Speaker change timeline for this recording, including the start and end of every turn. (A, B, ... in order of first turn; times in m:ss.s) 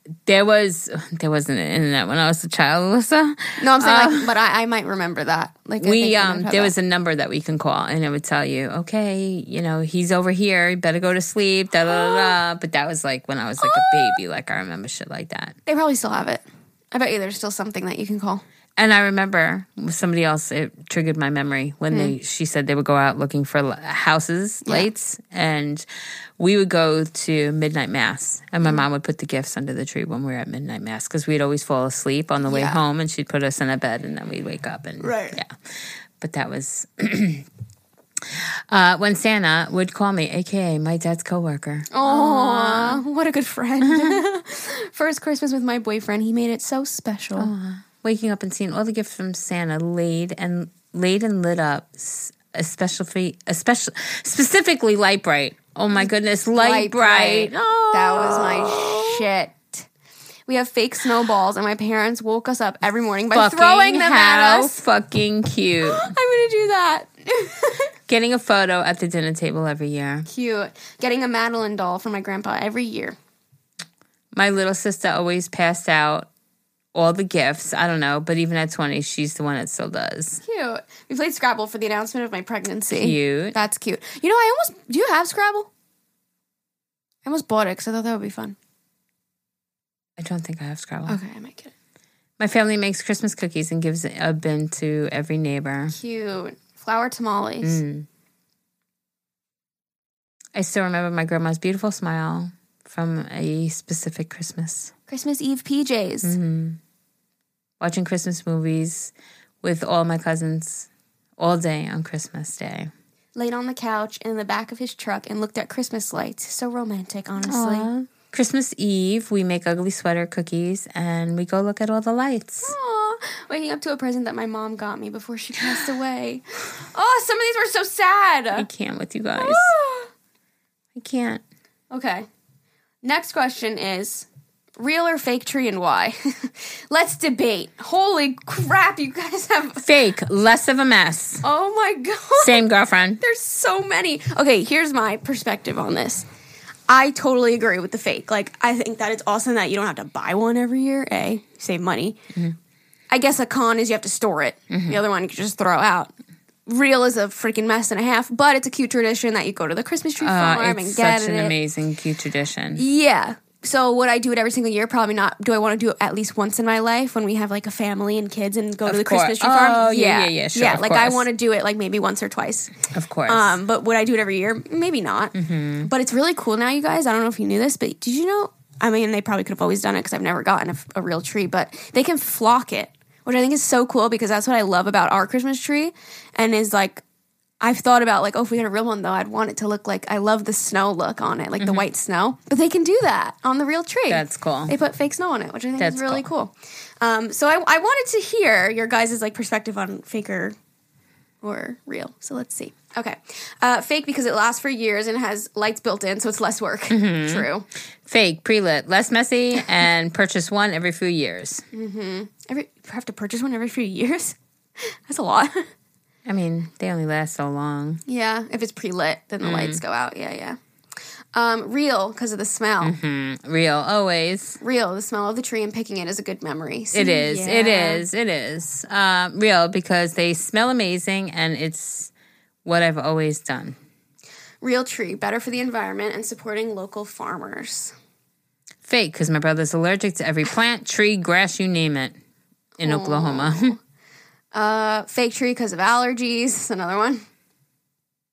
0:00.2-0:04.3 A
0:03.6-0:06.7 B
0:05.8-0:15.6 A
0:11.9-0:12.4 B
0:13.6-0:14.2 B
0:15.6-0:18.4 B
0:18.8-0:25.8 A
0:24.6-0:24.9 B
0:26.4-0:35.5 A
0:32.4-0:32.8 B
0:35.0-0:35.4 B
0:36.2-0:37.4 A
0:38.3-0:43.0 A
0:41.9-0:47.5 B
0:43.8-0:44.2 A
0:47.4-0:59.3 A
0:55.9-0:59.9 B
1:00.5-1:04.8 B
1:03.3-1:06.1 A
1:05.8-1:07.9 B
1:08.1-1:10.3 A
1:10.3-1:13.2 B
1:14.3-1:16.3 A
1:16.9-1:20.4 A
1:20.4-1:25.7 B
1:22.9-1:23.6 A
1:27.2-1:28.6 B
1:30.2-1:31.2 A
1:31.1-1:31.7 B
1:32.4-1:35.9 A
1:35.9-1:37.8 B
1:37.6-1:38.1 A
1:40.5-1:44.9 A
1:45.1-1:46.4 B
1:46.2-1:46.8 A
1:47.8-1:49.1 A
1:49.6-1:52.9 A
1:53.4-1:57.9 B
1:57.5-2:02.7 A
2:02.6-2:08.7 B
2:08.5-2:09.8 A
2:09.4-2:10.1 B
2:11.0-2:11.4 A
2:11.9-2:12.3 B
2:13.0-2:14.3 B
2:14.8-2:19.8 B
2:19.8-2:21.4 A
2:21.4-2:22.6 B
2:22.4-2:23.2 A
2:23.2-2:26.2 B
2:26.9-2:32.2 B
2:33.1-2:36.1 B
2:34.7-2:35.0 A
2:36.6-2:41.5 B
2:40.2-2:42.8 A
2:42.8-3:07.0 B
2:48.8-2:51.2 A
2:52.9-2:53.5 A
2:55.4-2:55.9 A
3:07.6-3:20.5 B
3:11.6-3:11.8 A
3:14.1-3:14.7 A
3:15.8-3:16.2 A
3:21.4-3:27.6 B
3:26.9-3:27.5 A
3:28.1-3:31.6 A
3:31.7-3:35.7 B
3:36.2-3:38.0 A
3:38.1-3:40.6 B
3:39.4-3:39.8 A
3:41.3-3:42.9 B
3:42.8-3:44.6 A
3:44.6-3:48.0 B
3:46.9-3:52.1 A
3:52.6-3:53.8 A
3:54.6-3:57.9 B
3:58.8-4:02.2 A
4:02.8-4:03.8 B
4:02.8-4:03.8 A
4:04.5-4:07.2 B